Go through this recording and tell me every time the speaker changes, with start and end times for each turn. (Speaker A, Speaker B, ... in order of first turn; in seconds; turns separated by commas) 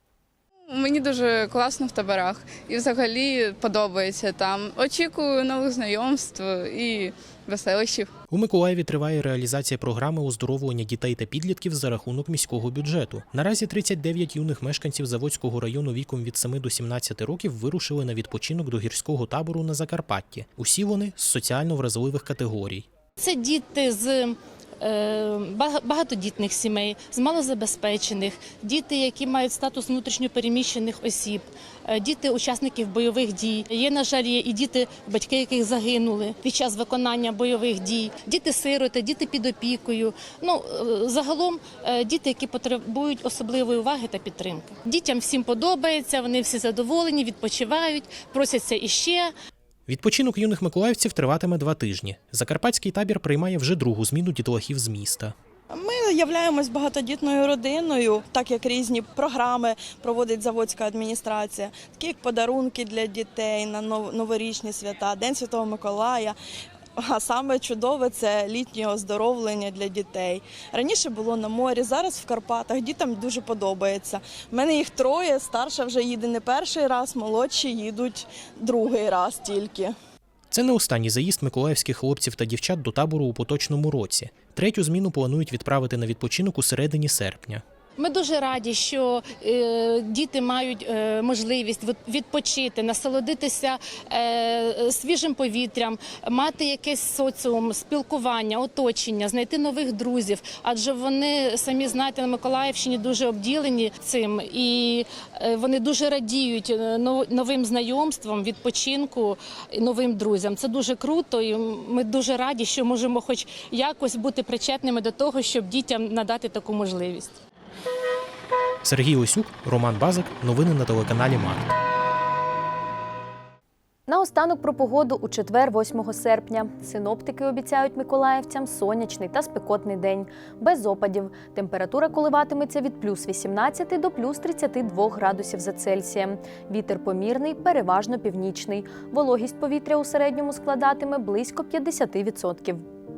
Speaker A: 0.7-8.1, Speaker B: 8.3-22.9, Speaker C: 23.2-49.3, Speaker B: 49.9-55.3, Speaker D: 55.7-66.3, Speaker D: 67.0-79.9, Speaker B: 80.5-87.6, Speaker C: 88.0-117.4, Speaker B: 118.8-121.7, Speaker E: 124.1-142.8